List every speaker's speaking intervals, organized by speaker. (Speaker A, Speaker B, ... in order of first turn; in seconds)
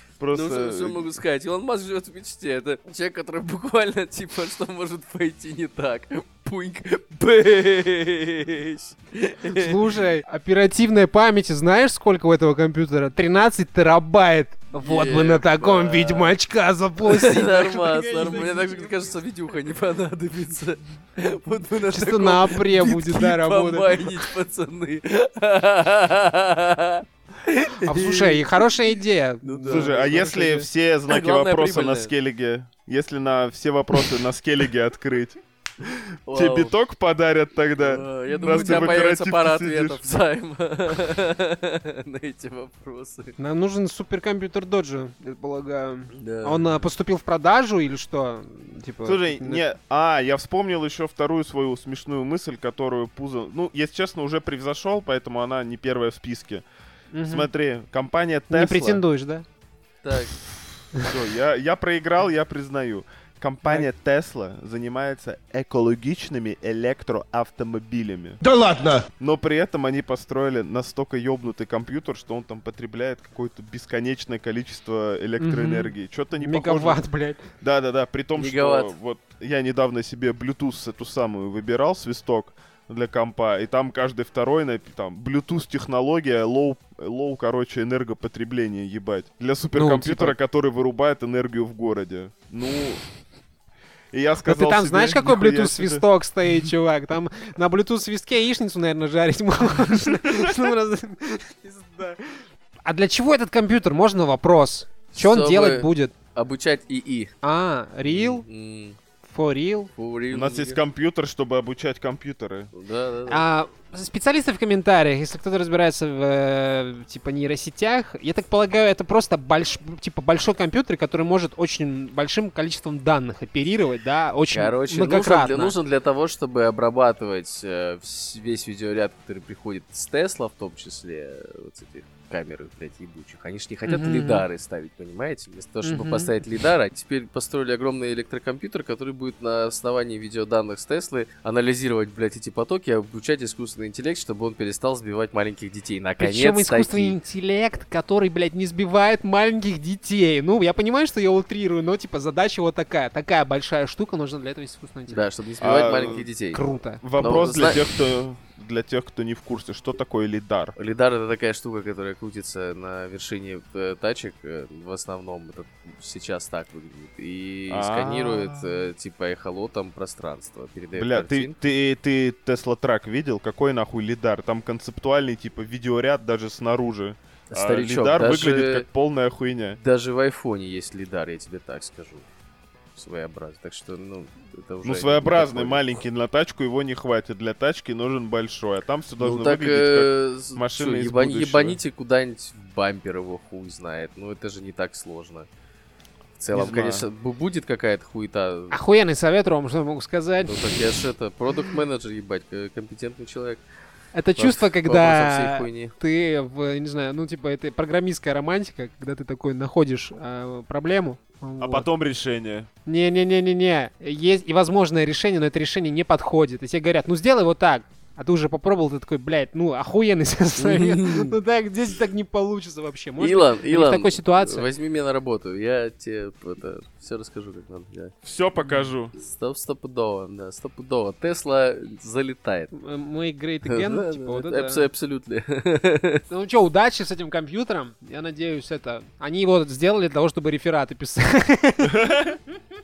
Speaker A: 0.2-1.0, 29.7-40.1, 49.0-56.6, 57.2-59.0, 61.0-77.0, 77.6-93.0, 94.1-96.0, 110.3-112.7, 155.6-156.3, 157.0-160.7, 167.7-168.9, 170.9-179.8, 184.8-191.8, 196.5-197.1, 211.6-212.7, 228.2-229.1, 241.8-242.4
Speaker B: 0.3-10.0, 14.8-16.4, 17.0-28.7, 29.4-30.3, 31.1-32.1, 36.3-36.7, 37.8-43.4, 46.1-46.8, 60.0-60.4, 78.3-78.9, 105.1-107.3, 108.0-109.0, 110.0-110.8, 112.7-113.4, 124.5-147.2, 155.1-157.8, 160.8-171.5, 177.5-178.8, 179.8-182.2, 182.9-186.0, 189.2-195.5, 196.4-198.8, 200.4-203.6, 204.4-205.9, 220.6-221.3, 223.2-228.1, 229.2-232.7, 233.7-236.2
Speaker C: 9.5-19.1, 21.9-24.3, 27.8-30.7, 38.3-38.9, 43.4-49.6, 57.1-57.5, 58.5-59.5, 75.4-77.4, 89.7-90.3, 94.5-106.1, 107.4-108.4, 109.2-109.9, 113.3-125.8, 133.9-134.4, 135.8-136.3, 146.2-155.2, 156.5-157.0, 198.7-200.8, 204.1-211.9, 212.8-224.7, 228.6-228.9, 232.7-234.9, 236.3-242.2